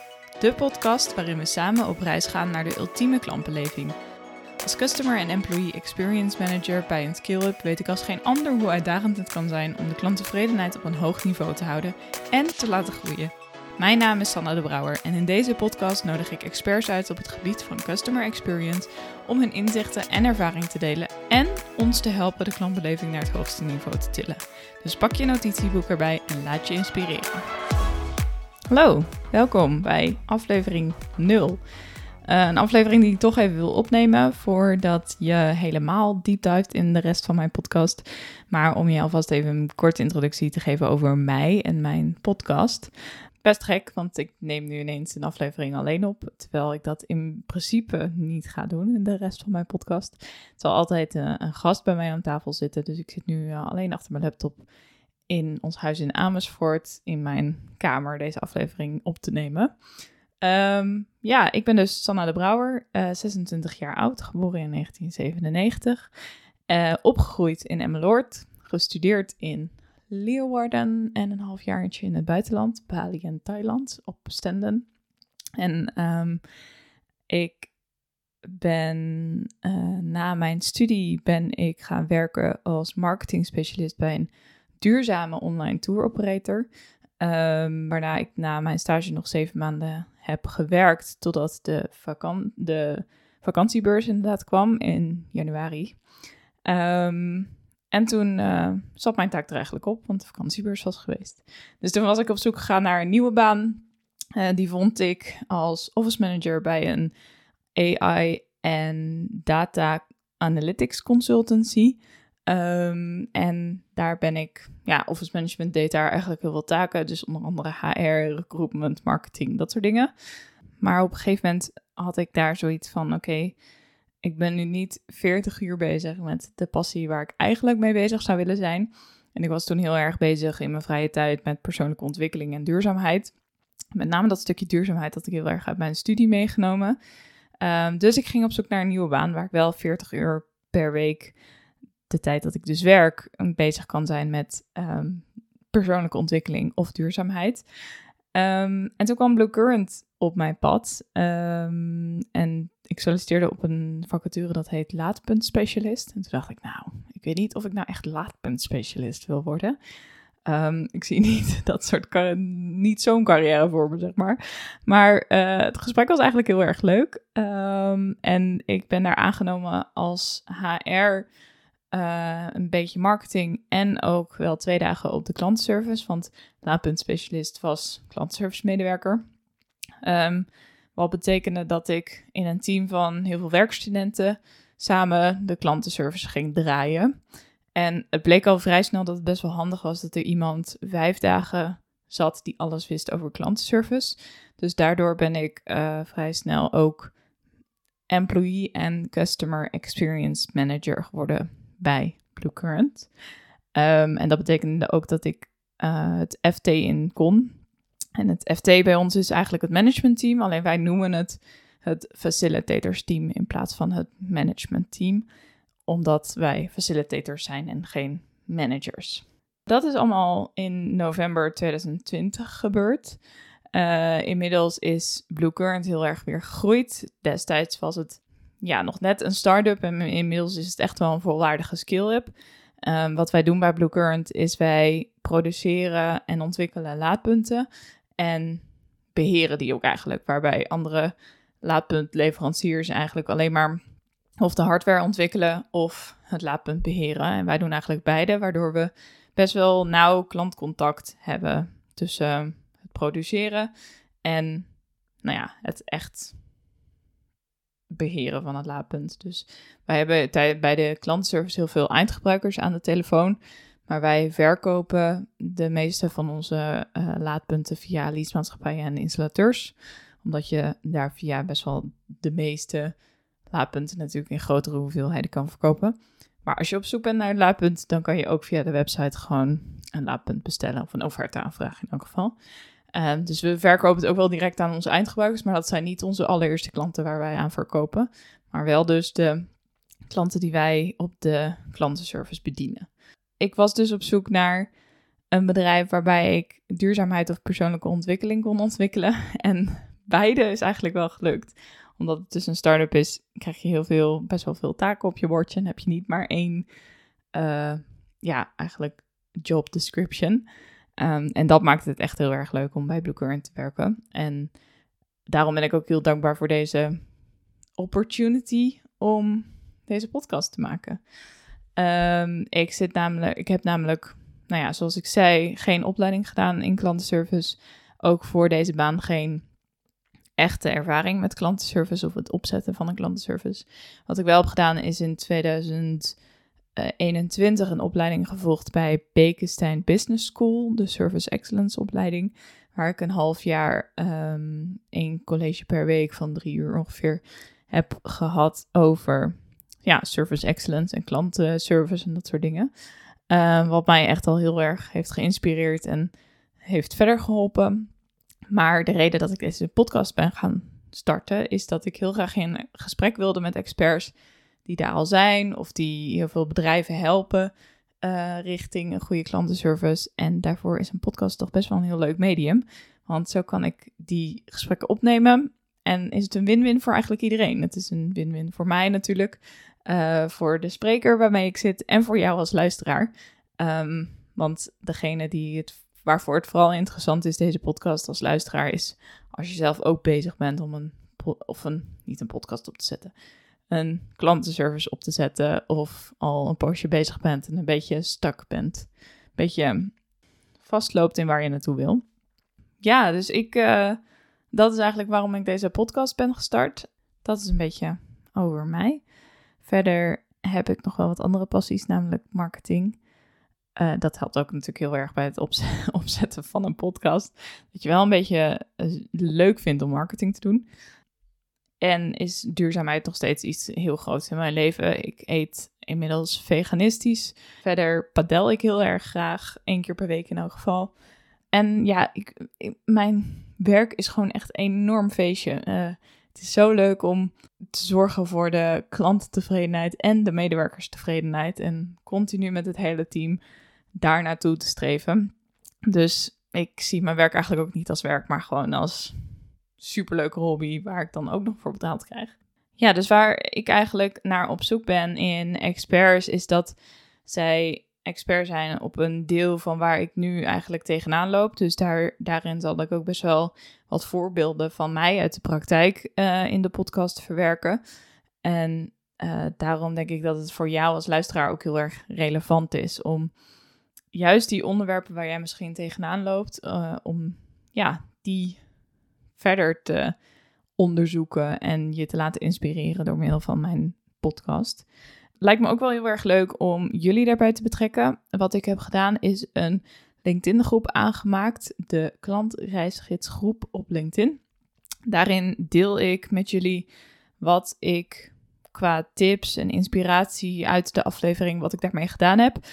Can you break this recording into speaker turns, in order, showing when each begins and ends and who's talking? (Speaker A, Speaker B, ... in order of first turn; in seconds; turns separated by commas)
Speaker A: 0.4-4.0, Speaker A: 4.6-27.5, Speaker A: 28.7-31.6, Speaker A: 32.2-42.9, Speaker A: 43.4-54.7, Speaker A: 55.3-59.7, Speaker A: 60.4-66.1, Speaker A: 66.7-74.9, Speaker A: 75.6-76.4, Speaker A: 77.3-77.7, Speaker A: 78.5-86.7, Speaker A: 87.2-96.0, Speaker A: 96.7-103.8, Speaker A: 104.4-107.1, Speaker A: 107.8-120.1, Speaker A: 120.8-123.6, Speaker A: 124.2-133.3, Speaker A: 133.9-137.0, Speaker A: 137.6-141.4, Speaker A: 142.1-147.6, Speaker A: 148.3-159.8, Speaker A: 160.5-171.3, Speaker A: 171.9-179.2, Speaker A: 180.0-187.1, Speaker A: 187.7-197.2, Speaker A: 198.1-203.1, Speaker A: 203.8-207.6, Speaker A: 208.2-215.3, Speaker A: 215.9-223.2, Speaker A: 223.7-232.3, Speaker A: 232.8-237.7, Speaker A: 238.2-243.8, Speaker A: 244.4-253.7, Speaker A: 254.2-256.4, Speaker A: 257.9-273.0, Speaker A: 273.5-282.3, Speaker A: 282.9-289.5, Speaker A: 290.1-294.7, Speaker A: 295.3-306.7, Speaker A: 307.3-310.4, Speaker A: 311.0-314.6, Speaker A: 315.3-317.1, Speaker A: 317.8-321.0, Speaker A: 321.8-329.5, Speaker A: 330.4-336.2, Speaker A: 336.8-352.7, Speaker A: 353.3-356.1, Speaker A: 356.6-357.9, Speaker A: 358.5-393.1, Speaker A: 393.7-400.0, Speaker A: 400.6-402.0, Speaker A: 402.8-404.0, Speaker A: 404.5-409.0, Speaker A: 409.6-413.0, Speaker A: 413.8-420.6, Speaker A: 421.8-430.9, Speaker A: 431.5-443.4, Speaker A: 444.0-445.3, Speaker A: 445.9-449.1, Speaker A: 449.8-467.8, Speaker A: 468.4-473.3, Speaker A: 474.1-478.6, Speaker A: 479.4-480.2, Speaker A: 480.8-484.9, Speaker A: 485.4-494.4, Speaker A: 495.1-496.9, Speaker A: 497.4-502.6